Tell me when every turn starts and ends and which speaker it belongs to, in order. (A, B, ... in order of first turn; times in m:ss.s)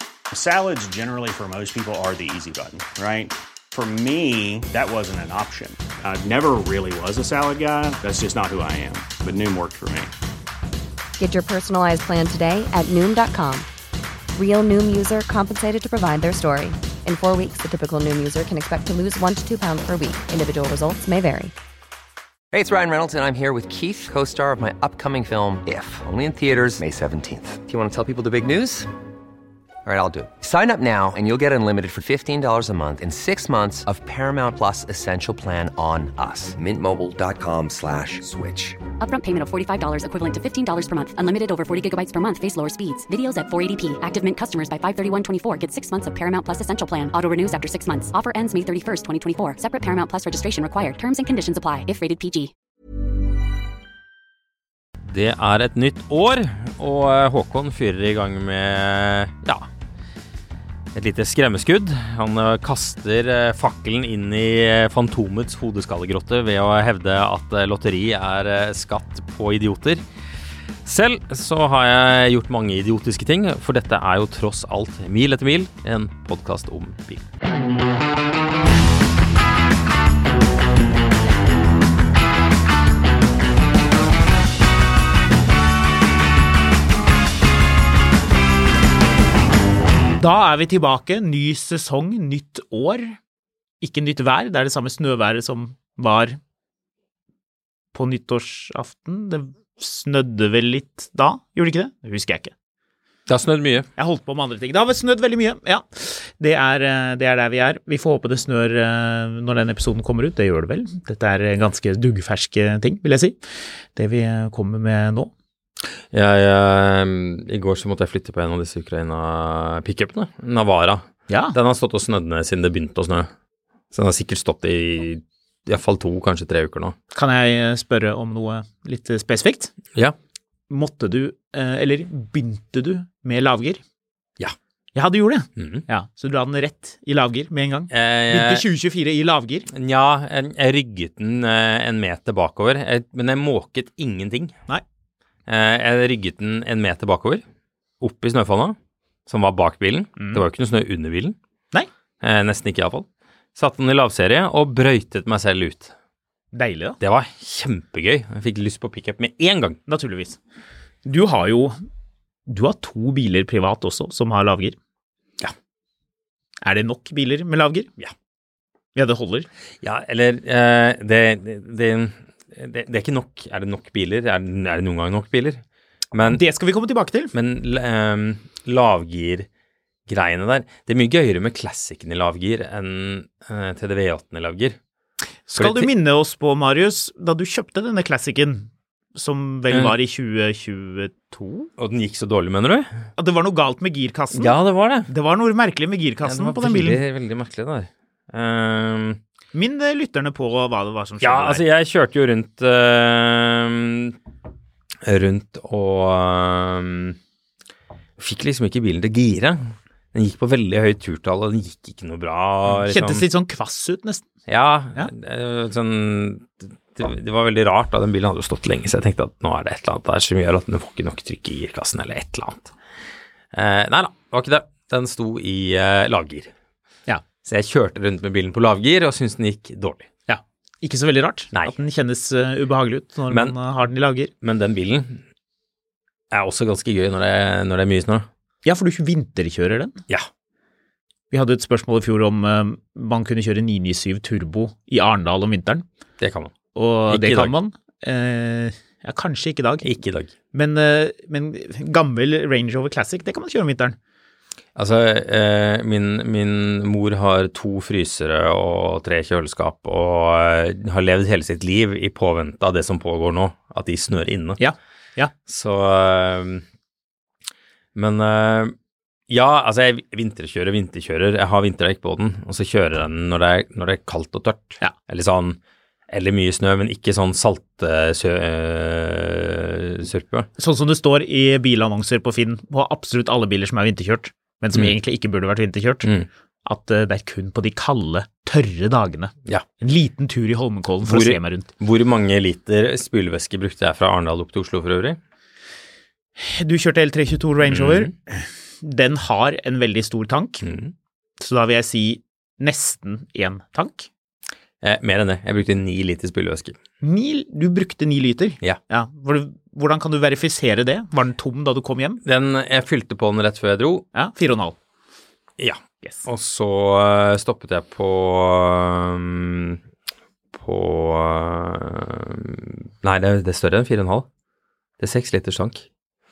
0:00.3-0:10.1 A
0:11.2-0:13.7 B
0:14.4-0:21.5 B
0:22.5-0:28.9 C
0:29.9-0:38.8 C
0:39.0-0:52.5 D
0:55.0-0:59.7 E
1:00.9-1:10.0 E
1:10.8-1:17.3 E
1:30.2-1:33.2 F
1:33.8-1:36.4 F
1:37.9-1:42.5 F
1:43.3-1:43.9 E
1:44.0-1:53.4 F
1:54.0-1:55.3 F
1:56.1-2:03.3 E
2:01.3-2:01.6 F
2:03.9-2:07.0 E
2:07.1-2:09.7 F
2:10.7-2:13.8 F
2:14.9-2:19.7 F
2:15.6-2:15.8 E
2:17.9-2:18.6 E
2:19.7-2:24.6 E
2:25.5-2:27.4 E
2:28.0-2:31.4 E
2:30.2-2:30.4 F
2:32.2-2:35.9 E
2:36.5-2:37.0 F
2:37.0-2:39.8 E
2:39.9-2:40.4 F
2:41.1-2:41.8 F
2:42.5-2:44.8 F
2:46.6-2:47.9 F
2:49.0-2:49.5 F
2:49.8-2:56.4 E
2:56.3-2:57.3 F
2:57.3-2:59.5 E
3:00.1-3:04.8 E
3:05.5-3:11.7 F
3:05.6-3:05.9 E
3:11.8-3:12.9 E
3:13.2-3:17.0 F
3:14.3-3:15.1 E
3:16.2-3:19.2 E
3:19.5-3:21.6 F
3:21.2-3:24.2 E
3:25.0-3:27.2 E
3:28.2-3:33.2 E
3:32.7-3:34.2 F
3:34.5-3:42.7 E
3:43.5-3:46.5 E
3:47.4-3:50.1 E
3:50.3-3:54.3 F
3:53.3-3:53.6 E
3:54.4-3:55.2 E
3:56.3-3:58.3 E
3:58.6-4:00.0 F
4:01.3-4:05.8 F
4:06.2-4:06.5 E
4:06.8-4:09.9 F
4:07.1-4:07.5 E
4:09.8-4:10.3 E
4:10.5-4:14.0 F
4:14.8-4:24.6 E
4:24.6-4:25.3 F
4:25.5-4:26.6 E
4:28.0-4:28.8 E
4:29.3-4:35.6 E
4:36.1-4:40.5 E
4:40.6-4:46.1 F
4:46.6-4:51.7 F
4:51.1-4:55.2 E
4:56.4-5:00.7 F
4:57.7-4:58.1 E
5:00.6-5:00.9 E
5:01.4-5:04.1 F
5:04.8-5:06.8 E
5:07.0-5:12.2 F
5:12.2-5:14.1 E
5:14.1-5:14.8 F
5:15.6-5:19.8 E
5:20.5-5:24.3 E
5:25.0-5:25.9 E